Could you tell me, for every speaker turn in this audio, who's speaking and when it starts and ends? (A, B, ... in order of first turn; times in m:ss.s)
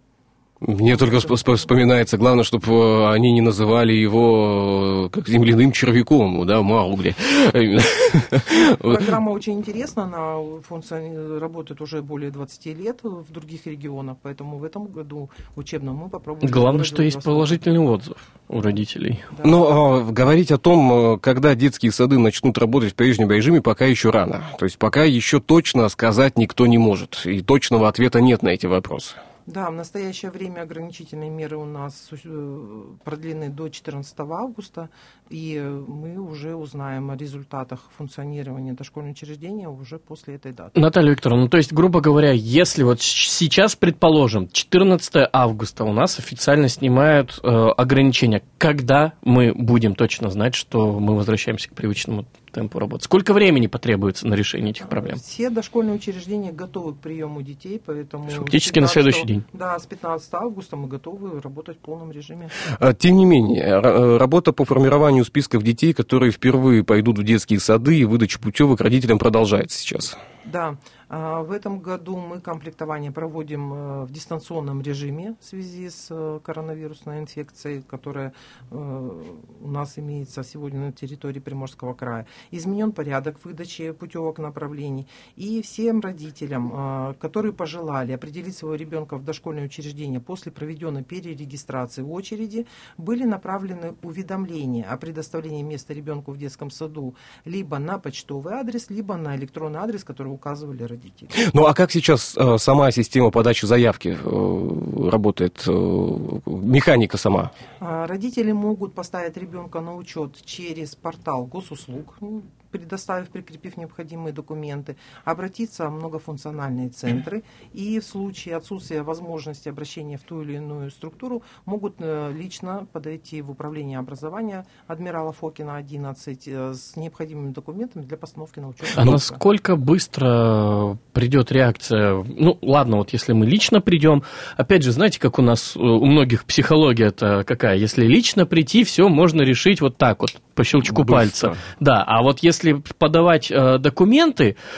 0:00.6-0:08.9 A
0:01.0-0:01.4 B
0:08.5-0:17.6 B
0:16.4-0:19.3 C
0:19.4-0:29.2 A
0:29.5-0:40.8 B
0:40.8-0:55.2 C
0:54.8-1:02.6 B
0:58.4-0:59.4 C
1:02.8-1:10.2 A
1:10.4-1:41.3 B
1:41.3-1:47.5 A
1:47.8-2:09.4 B
2:09.0-2:24.6 C
2:20.8-2:21.6 A